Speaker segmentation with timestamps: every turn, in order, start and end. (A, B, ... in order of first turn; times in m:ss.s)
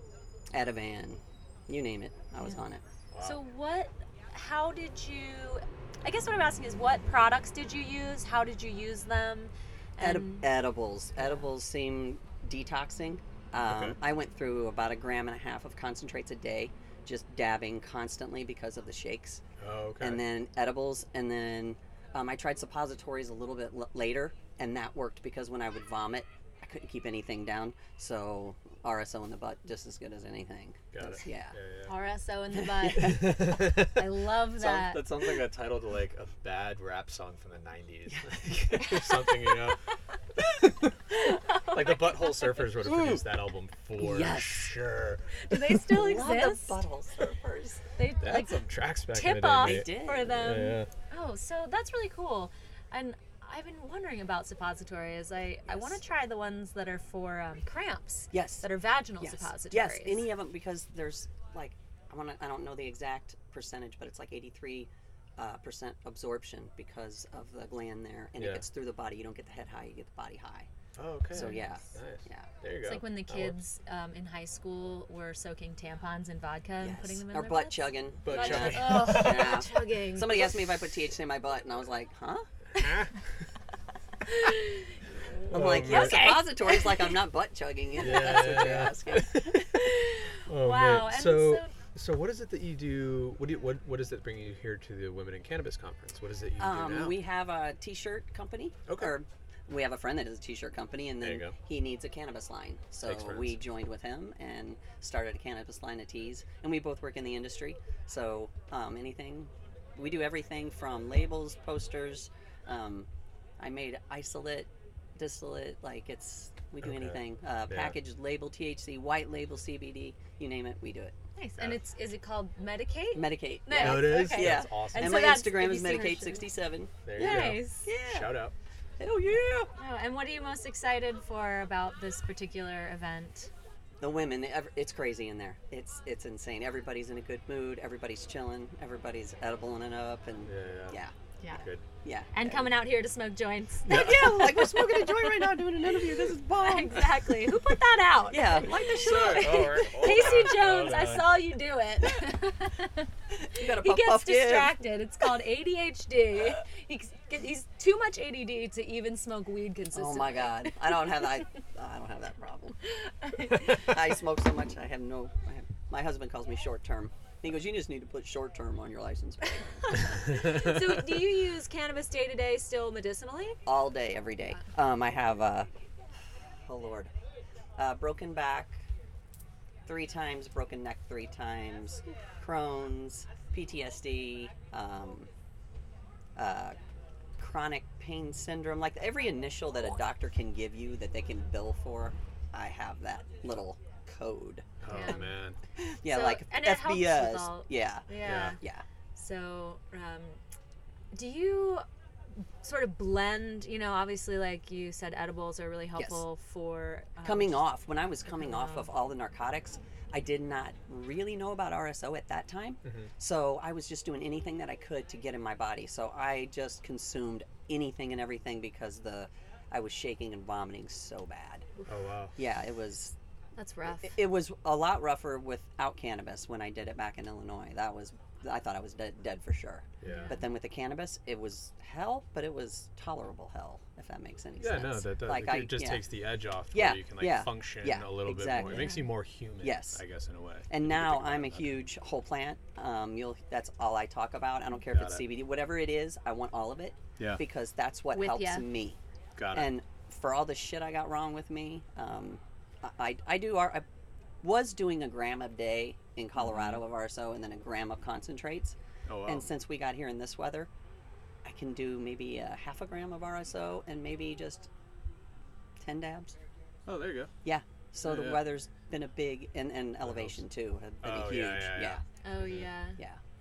0:00.5-0:02.8 A
0:03.1-0:03.5 B
0:03.2-0:10.4 C
0:10.0-0:19.4 A
0:13.6-0:14.0 B
0:19.6-0:20.2 B
0:20.0-0:31.6 A
0:30.9-0:32.0 B
0:31.9-0:35.1 C
0:32.5-0:33.2 A
0:32.8-0:39.8 B
0:40.4-0:41.0 B
0:41.3-0:42.7 C
0:41.5-0:45.9 B
0:42.8-0:43.3 A
0:44.0-0:44.7 A
0:45.5-0:46.7 C
0:45.8-0:47.8 A
0:48.0-0:48.6 C
0:48.2-0:50.9 B
0:49.1-1:00.3 C
0:49.5-0:50.4 A
0:55.6-0:56.0 A
0:58.3-1:10.7 A
1:08.4-1:08.7 B
1:11.0-1:13.6 B
1:11.3-1:12.6 A
1:12.9-1:20.5 C
1:16.8-1:22.5 A
1:18.2-1:19.5 B
1:22.7-1:23.2 B
1:24.3-1:24.7 C
1:25.3-1:26.4 B
1:25.5-1:29.8 A
1:26.1-1:26.4 C
1:28.0-1:29.8 B
1:29.9-1:31.7 C
1:30.5-1:37.2 B
1:36.6-2:01.2 A
1:38.9-1:39.1 B
1:41.2-1:41.6 B
1:43.0-1:43.6 B
1:56.8-1:58.0 B
2:01.4-2:06.5 C
2:01.6-2:01.9 B
2:03.1-2:09.7 A
2:03.7-2:05.5 B
2:07.0-2:08.6 B
2:07.2-2:07.9 C
2:09.8-2:13.5 C
2:14.0-2:21.1 A
2:20.4-2:21.9 B
2:22.0-2:23.0 A
2:22.3-2:23.9 C
2:23.8-2:25.1 B
2:23.9-2:27.6 A
2:26.6-2:28.7 C
2:28.3-2:30.3 A
2:28.6-2:31.6 B
2:29.3-2:33.1 C
2:33.3-2:35.5 A
2:33.8-2:40.7 C
2:39.9-2:42.8 A
2:43.3-2:50.2 A
2:50.3-2:53.6 C
2:53.6-2:55.7 A
2:56.3-2:57.1 A
2:57.8-2:58.9 A
2:59.9-3:05.3 A
3:06.4-3:06.8 A
3:07.4-3:14.7 A
3:14.8-3:15.6 B
3:14.9-3:15.2 C
3:15.7-3:18.8 A
3:16.1-3:18.6 C
3:18.1-3:18.6 B
3:19.2-3:20.4 C
3:21.1-3:21.9 C
3:22.6-3:27.6 C
3:26.0-3:26.3 A
3:27.2-3:41.7 A
3:28.4-3:28.8 C
3:32.8-3:33.1 B
3:41.9-3:42.4 B
3:42.4-3:43.2 A
3:43.6-3:44.1 C
3:43.8-3:56.0 A
3:50.0-3:50.4 B
3:54.6-4:01.8 B
3:56.7-3:59.0 A
3:59.6-4:00.0 A
4:00.7-4:13.8 A
4:04.9-4:05.3 B
4:07.2-4:07.4 B
4:08.2-4:08.6 C
4:09.4-4:09.7 B
4:14.4-4:20.7 A
4:19.1-4:19.5 B
4:21.4-4:24.7 A
4:25.8-4:26.4 A
4:26.9-4:27.3 B
4:27.4-4:32.0 A
4:28.0-4:28.4 B
4:30.0-4:30.4 B
4:31.0-4:32.8 B
4:32.2-4:33.0 C
4:32.9-4:33.2 A